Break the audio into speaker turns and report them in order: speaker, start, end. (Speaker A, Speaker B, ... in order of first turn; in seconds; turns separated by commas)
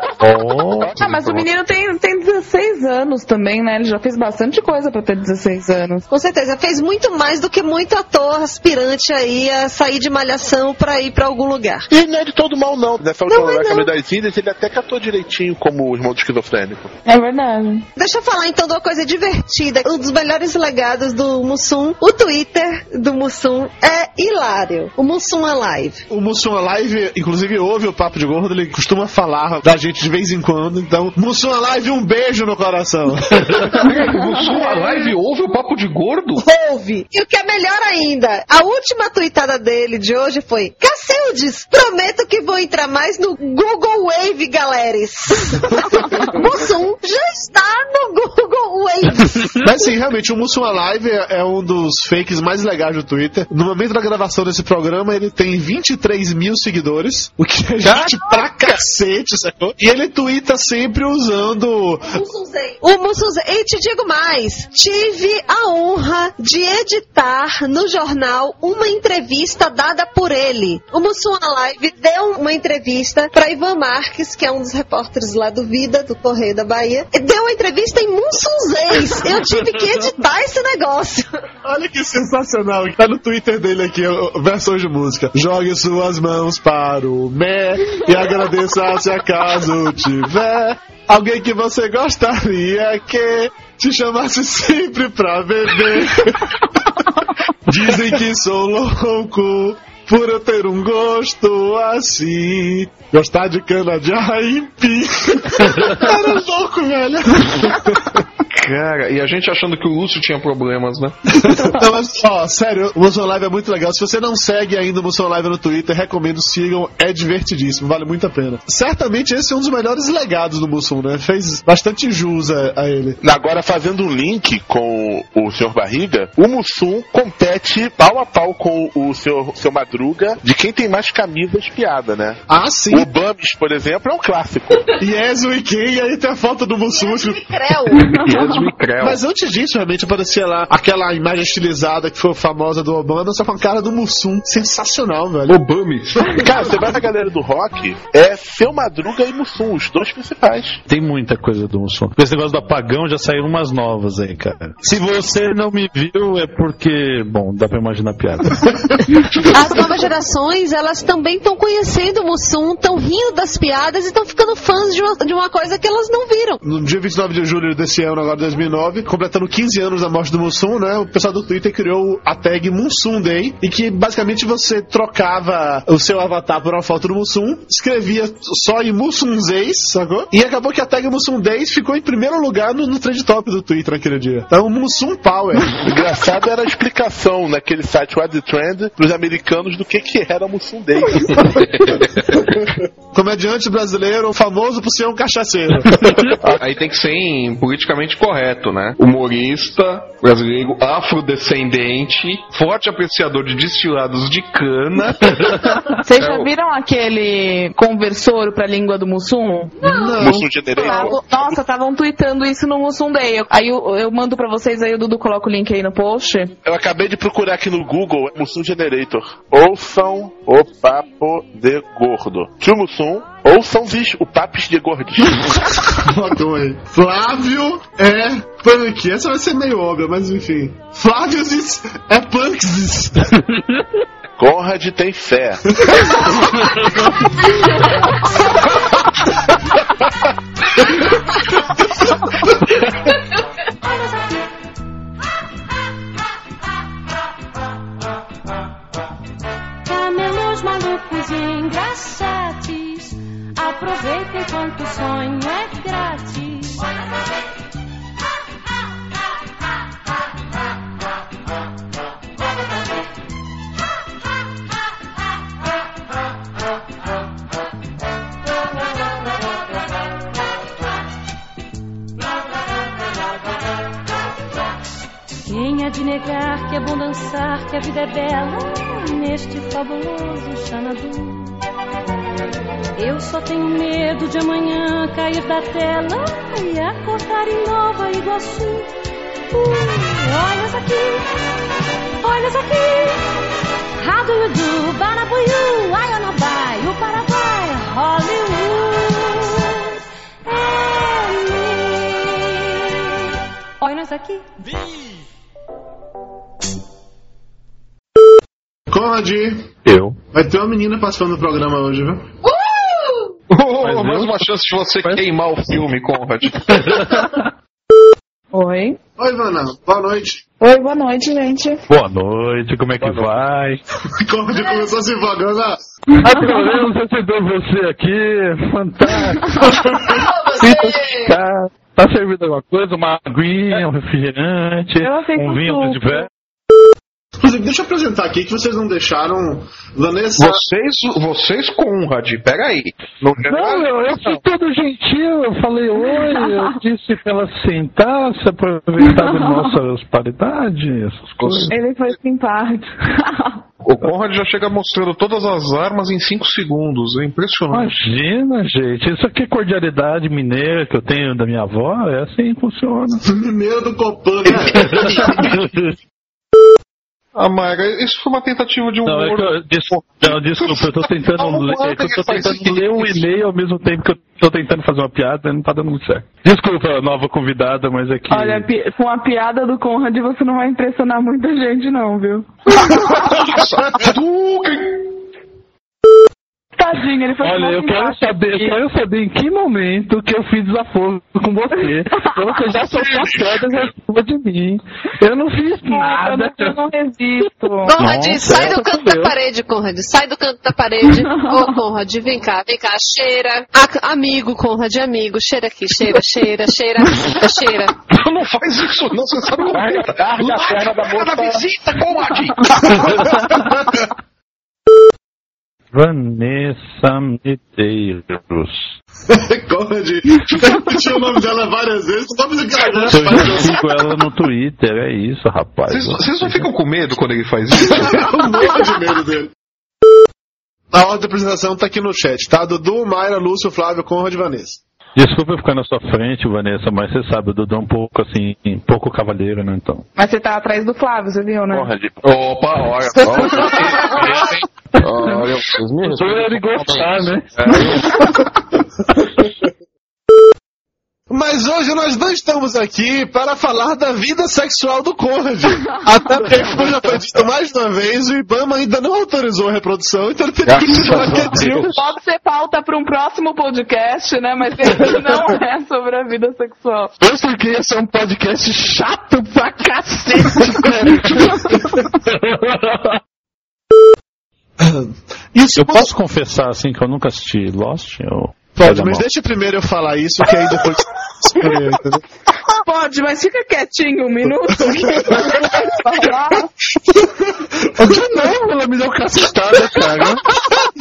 Speaker A: 0.2-0.9, Speaker B: 0.7-6.0, Speaker C: 0.9-1.4, Speaker D: 6.1-11.9, Speaker E: 11.9-16.9, Speaker D: 13.3-13.9, Speaker B: 17.1-17.9, Speaker D: 18.0-26.0, Speaker F: 26.1-33.7, Speaker C: 33.7-36.4, Speaker B: 34.2-35.1, Speaker D: 36.4-49.6, Speaker F: 49.6-62.1, Speaker D: 62.1-81.3, Speaker F: 81.6-96.5, Speaker F: 97.7-108.2, Speaker C: 108.5-111.2, Speaker F: 111.4-123.2, Speaker E: 123.2-132.4, Speaker F: 132.5-133.1, Speaker E: 132.9-134.8, Speaker F: 135.0-137.5, Speaker D: 136.9-138.5, Speaker B: 138.0-138.5, Speaker C: 138.2-139.2, Speaker F: 139.0-145.6, Speaker C: 145.5-146.8, Speaker E: 146.4-150.8, Speaker A: 150.9-158.8, Speaker D: 159.5-166.6, Speaker F: 166.6-185.8, Speaker E: 185.8-191.6, Speaker C: 191.4-192.6, Speaker F: 193.1-196.0, Speaker C: 196.4-206.5, Speaker B: 205.9-209.8, Speaker F: 209.8-211.1, Speaker D: 209.8-210.2, Speaker E: 210.2-211.5, Speaker B: 210.8-216.5, Speaker E: 216.6-225.4, Speaker F: 225.8-233.3, Speaker E: 234.4-235.6, Speaker A: 236.6-236.9, Speaker G: 243.8-244.5, Speaker G: 249.8-256.8, Speaker G: 275.4-281.6, Speaker G: 283.0-288.9, Speaker G: 289.5-291.5, Speaker G: 292.2-293.2, Speaker G: 294.0-299.9, Speaker G: 300.4-303.2, Speaker G: 303.8-304.5, Speaker F: 308.9-309.7, Speaker A: 309.9-310.2, Speaker F: 310.3-312.3, Speaker D: 312.4-313.3, Speaker C: 313.5-317.1, Speaker A: 313.8-314.4, Speaker A: 316.6-317.4, Speaker B: 318.5-319.0, Speaker F: 319.2-320.4, Speaker B: 320.6-321.8, Speaker A: 321.9-323.8, Speaker C: 323.0-323.3, Speaker F: 324.1-325.8, Speaker A: 326.2-336.3, Speaker B: 326.2-326.6, Speaker F: 329.9-331.3, Speaker D: 330.2-331.1, Speaker B: 335.0-336.2, Speaker F: 337.4-340.6, Speaker C: 340.4-344.4, Speaker A: 343.4-351.7, Speaker B: 346.1-346.7, Speaker B: 349.1-349.6, Speaker C: 351.4-351.7, Speaker B: 351.7-353.6, Speaker C: 353.8-358.0, Speaker A: 357.7-363.2, Speaker F: 363.2-365.0, Speaker A: 364.7-366.0, Speaker C: 364.9-365.4, Speaker C: 367.3-373.2, Speaker A: 369.0-378.7, Speaker B: 378.3-383.4, Speaker C: 383.1-385.0, Speaker B: 386.8-388.8, Speaker A: 387.4-396.8, Speaker B: 395.8-397.9, Speaker A: 397.8-399.3, Speaker D: 397.9-407.9, Speaker C: 408.1-413.3, Speaker E: 409.7-411.6, Speaker A: 415.9-418.9, Speaker F: 419.3-423.8, Speaker A: 423.1-426.7, Speaker C: 425.9-428.3, Speaker F: 427.7-429.5, Speaker F: 430.9-434.8, Speaker A: 435.1-440.0, Speaker B: 440.2-441.9, Speaker E: 441.7-442.3, Speaker C: 442.2-448.1, Speaker A: 443.2-444.4, Speaker E: 443.2-444.3, Speaker A: 444.9-445.4, Speaker A: 446.0-448.5, Speaker F: 451.3-461.7, Speaker C: 460.7-462.0, Speaker A: 461.0-461.9, Speaker B: 461.2-467.1, Speaker A: 467.2-473.1, Speaker F: 474.8-476.1, Speaker A: 475.8-479.2, Speaker F: 478.8-482.2, Speaker B: 482.8-486.7, Speaker A: 488.0-490.8